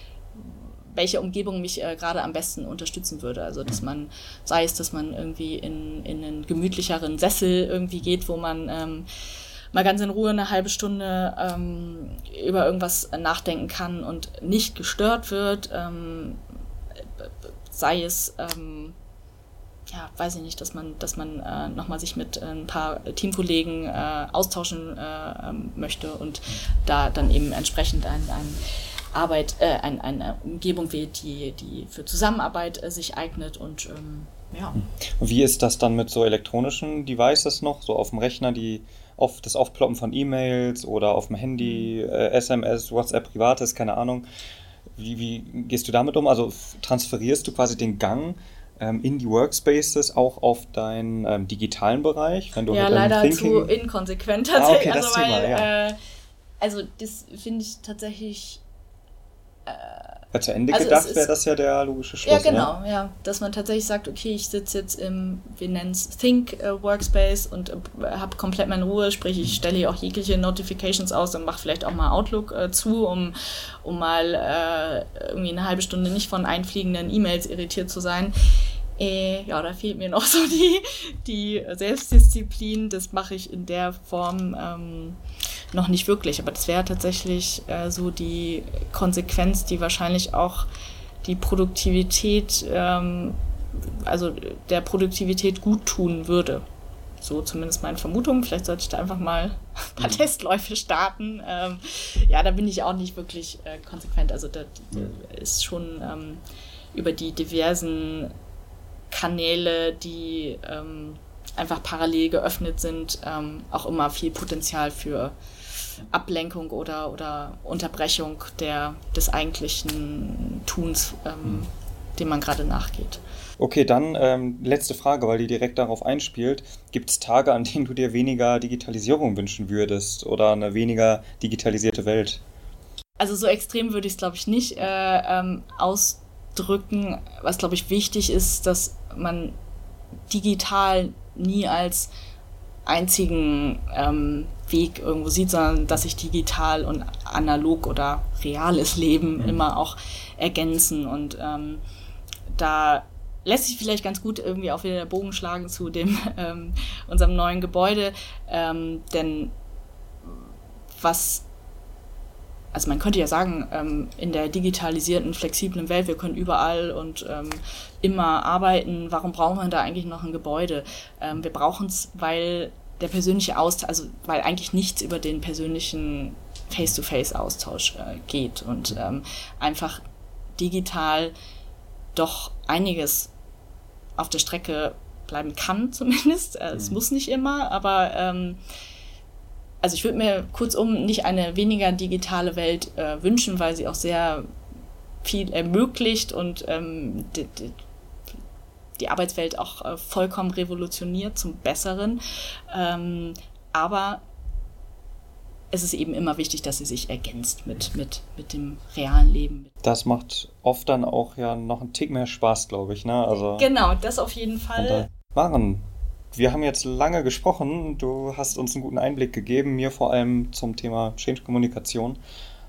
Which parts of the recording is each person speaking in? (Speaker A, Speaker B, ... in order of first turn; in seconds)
Speaker A: 0.4-9.1, 9.7-16.4, 17.2-18.9, 19.9-28.6, 29.1-34.8, 52.7-56.0, 56.6-58.6, 59.6-61.3, 62.2-78.3, 79.0-85.2, 85.7-90.7, 91.2-96.6, 97.2-106.4, 106.9-108.3, 109.1-115.3, 116.0-123.2, 133.2-139.6, 140.3-142.1, 142.9-151.8, 152.5-159.5, 161.0-161.4, 162.7-180.0, 180.6-181.3, 182.2-183.3, 184.2-188.6, 189.8-194.4, 195.2-197.8, 199.0-202.2, 202.7-204.2, 205.7-209.7, 213.4-215.1
Speaker B: 35.1-44.2, 45.0-53.7, 54.5-55.7, 60.3-62.7, 123.6-132.4, 209.8-213.7, 214.8-222.2